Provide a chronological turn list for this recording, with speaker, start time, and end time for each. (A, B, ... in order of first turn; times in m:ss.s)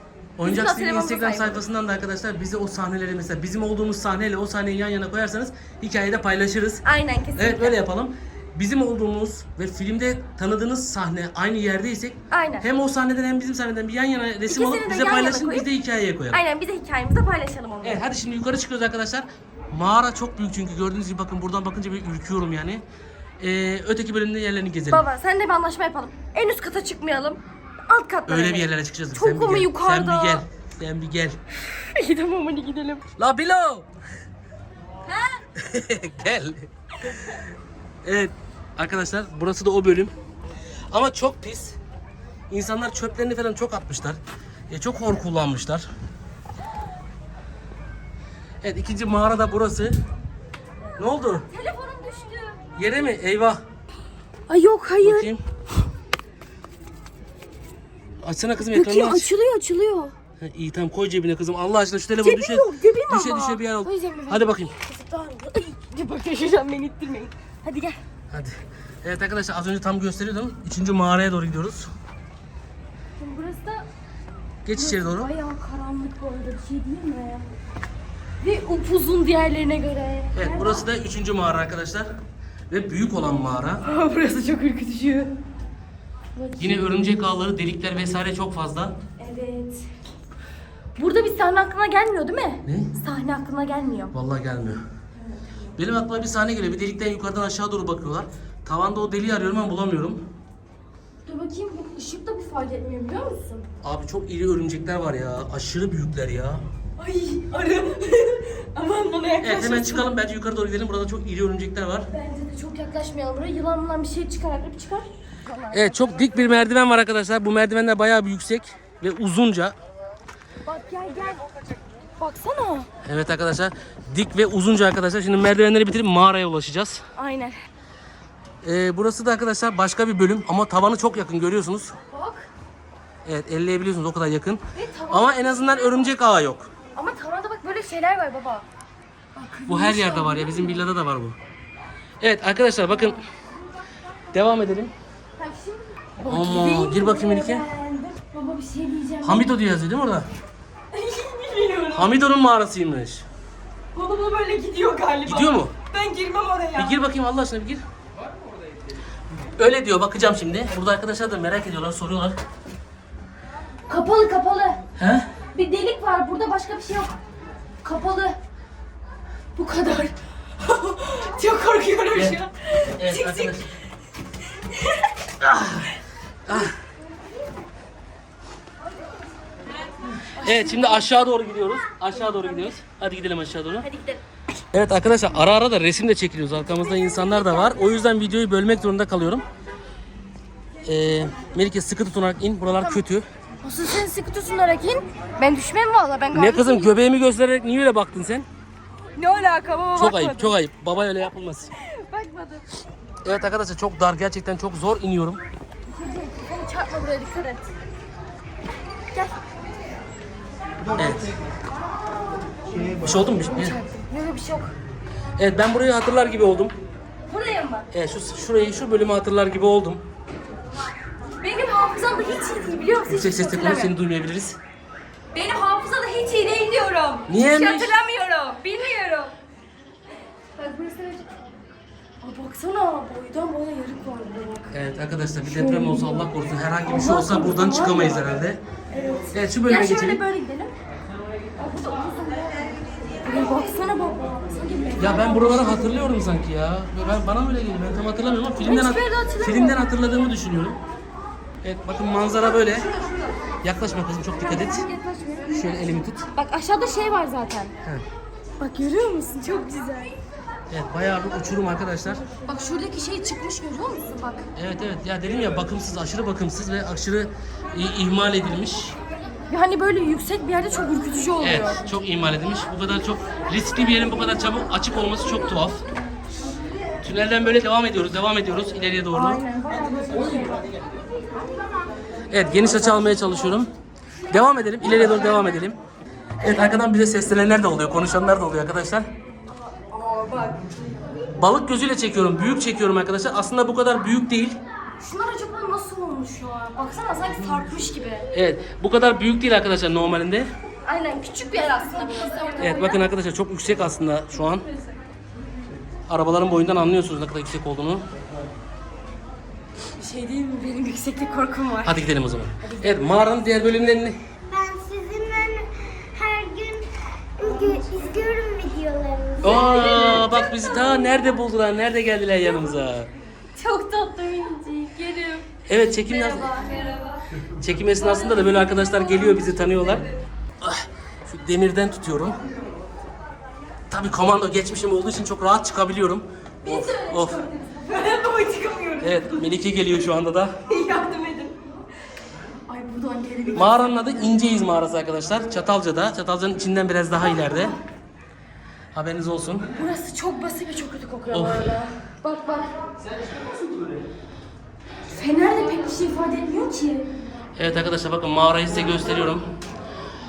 0:00.4-0:06.8 A
0:00.4-0:01.6 B
0:06.8-0:07.8 B
0:07.4-0:16.4 A
0:12.3-0:12.6 B
0:14.5-0:15.7 B
0:16.3-0:18.0 B
0:17.8-0:22.8 A
0:23.4-0:25.0 A
0:24.9-0:30.4 B
0:28.3-0:31.4 A
0:31.7-0:33.0 B
0:33.2-0:33.9 A
0:35.0-0:35.4 B
0:35.6-0:36.7 A
0:38.0-0:40.1 A
0:40.9-0:41.8 A
0:42.5-0:45.9 A
0:48.6-0:50.0 A
0:51.0-0:51.4 A
0:51.5-0:52.6 B
0:52.8-0:53.6 A
0:54.5-0:55.3 B
0:55.0-0:55.4 A
0:58.2-0:59.3 A
0:58.6-1:00.1 B
1:00.4-1:04.7 A
1:02.2-1:08.0 B
1:08.3-1:11.9 A
1:13.2-1:13.9 B
1:14.6-1:15.3 A
1:14.7-1:17.4 B
1:18.4-1:20.9 B
1:20.3-1:22.1 A
1:22.7-1:23.8 A
1:23.8-1:25.3 B
1:26.4-1:26.8 B
1:26.6-1:29.0 A
1:29.2-1:30.0 B
1:31.0-1:34.1 B
1:32.6-1:32.9 A
1:34.1-1:34.8 A
1:35.2-1:35.6 B
1:35.8-1:40.2 A
1:41.2-1:43.7 B
1:43.8-1:46.6 A
1:47.0-1:50.1 B
1:49.4-1:52.1 A
1:52.1-1:56.5 B
1:55.7-1:59.7 A
2:00.6-2:01.4 B
2:02.2-2:02.9 B
2:03.0-2:07.0 A
2:07.1-2:07.6 B
2:08.6-2:11.9 A
2:12.1-2:12.5 B
2:13.2-2:16.7 A
2:14.7-2:16.1 B
2:16.9-2:18.6 B
2:19.3-2:20.8 B
2:19.7-2:21.4 A
2:22.2-2:23.2 A
2:24.3-2:24.9 A
2:25.4-2:29.5 B
2:26.2-2:27.7 A
2:29.2-2:30.3 A
2:30.9-2:32.1 B
2:31.9-2:33.2 A
2:33.9-2:37.0 B
2:35.2-2:35.7 A
2:36.8-2:37.8 A
2:39.5-2:42.4 A
2:43.9-2:44.8 B
2:45.0-2:45.3 A
2:45.5-2:47.1 B
2:47.8-2:48.4 B
2:49.6-2:53.6 B
2:52.9-2:53.6 A
2:54.7-2:55.1 B
2:55.4-2:56.8 A
3:00.3-3:01.0 B
3:00.4-3:03.9 A
3:03.9-3:04.2 B
3:04.7-3:09.4 A
3:06.8-3:07.8 B
3:10.8-3:13.2 A
3:12.7-3:13.0 B
3:13.6-3:16.9 B
3:16.3-3:18.5 A
3:19.2-3:20.6 B
3:20.0-3:21.7 A
3:21.8-3:22.6 B
3:23.2-3:25.4 A
3:25.9-3:27.7 B
3:31.0-3:31.3 A
3:33.0-3:33.8 A
3:33.5-3:34.7 B
3:35.4-3:36.7 A
3:37.3-3:37.9 B
3:37.9-3:40.0 A
3:41.4-3:43.9 B
3:43.0-3:44.6 A
3:45.3-3:49.3 B
3:47.3-3:47.9 A
3:50.6-3:51.3 B
3:52.2-3:54.7 B
3:54.7-3:58.6 A
3:55.4-3:56.2 B
3:56.8-3:58.2 B
3:58.9-4:00.7 B
3:59.3-4:00.2 A
4:01.6-4:06.0 B
4:05.0-4:10.8 A
4:08.6-4:09.8 B
4:11.6-4:12.9 A
4:13.6-4:14.9 A
4:14.4-4:15.7 B
4:15.5-4:16.2 A
4:16.3-4:17.7 B
4:18.6-4:20.2 B
4:20.7-4:22.2 A
4:22.4-4:24.5 B
4:24.6-4:29.0 A
4:29.5-4:31.8 B
4:31.4-4:35.8 A
4:37.0-4:39.4 A
4:39.1-4:40.7 B
4:42.3-4:43.7 A
4:44.3-4:45.8 A
4:46.4-4:49.1 A
4:49.7-4:50.6 B
4:51.3-4:54.6 A
4:55.0-4:58.2 B
4:58.3-5:00.5 A
5:00.8-5:03.0 B
5:02.6-5:04.6 A
5:06.1-5:08.0 A
5:09.9-5:12.0 B
5:11.8-5:14.2 A
5:12.6-5:13.1 B
5:14.6-5:16.8 C
5:17.4-5:18.3 B
5:17.4-5:19.6 C
5:19.3-5:21.3 B
5:19.4-5:23.1 A
5:23.5-5:27.2 B
5:25.7-5:26.5 A
5:27.4-5:30.1 A
5:28.0-5:30.1 B
5:30.6-5:32.4 A
5:33.9-5:37.4 A
5:36.6-5:39.6 B
5:39.0-5:40.6 A
5:40.7-5:41.6 B
5:42.7-5:44.1 B
5:43.5-5:47.8 A
5:47.1-5:47.8 B
5:48.9-5:49.7 A
5:49.7-5:52.7 B
5:51.3-5:51.8 A
5:55.1-5:57.1 B
5:57.6-5:59.5 A